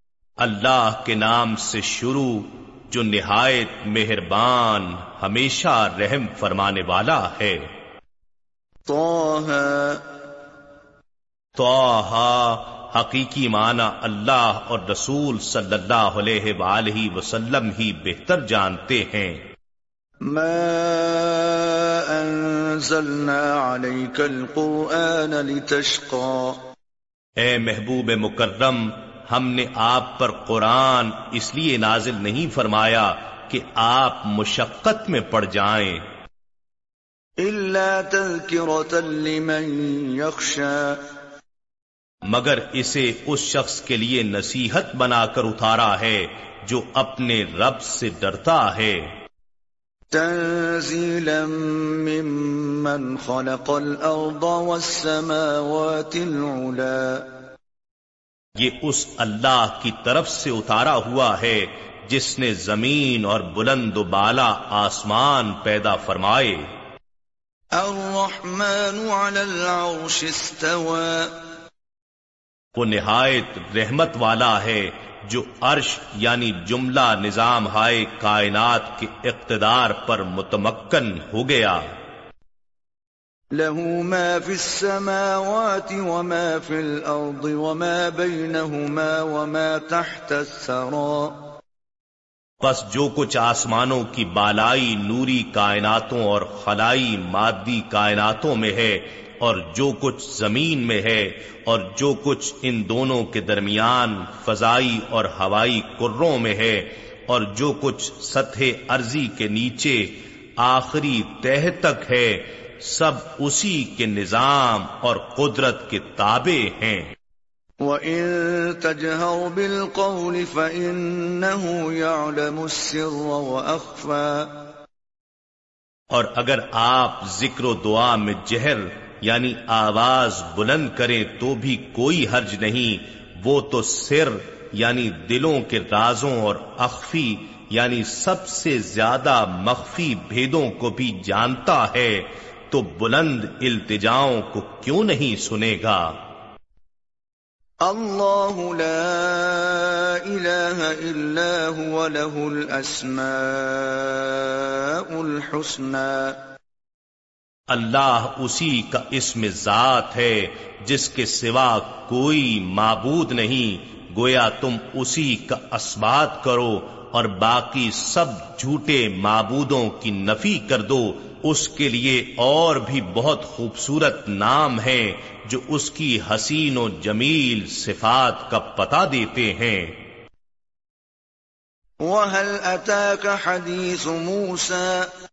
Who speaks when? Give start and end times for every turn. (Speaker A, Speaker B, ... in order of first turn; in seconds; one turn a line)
Speaker A: 0.4-7.7
Speaker B: 8.9-10.0
Speaker A: 11.6-19.4
Speaker B: 20.2-26.6
Speaker A: 27.4-36.0
Speaker B: 37.4-41.0
Speaker A: 42.2-49.1
Speaker B: 50.1-57.3
Speaker A: 58.6-66.7
Speaker B: 67.8-71.3
Speaker A: 72.8-82.0
Speaker B: 83.5-91.4
Speaker A: 92.6-117.1
Speaker B: 117.8-124.5
Speaker A: 126.1-146.2
Speaker B: 147.8-156.4
Speaker A: 157.7-180.0
Speaker B: 182.0-185.1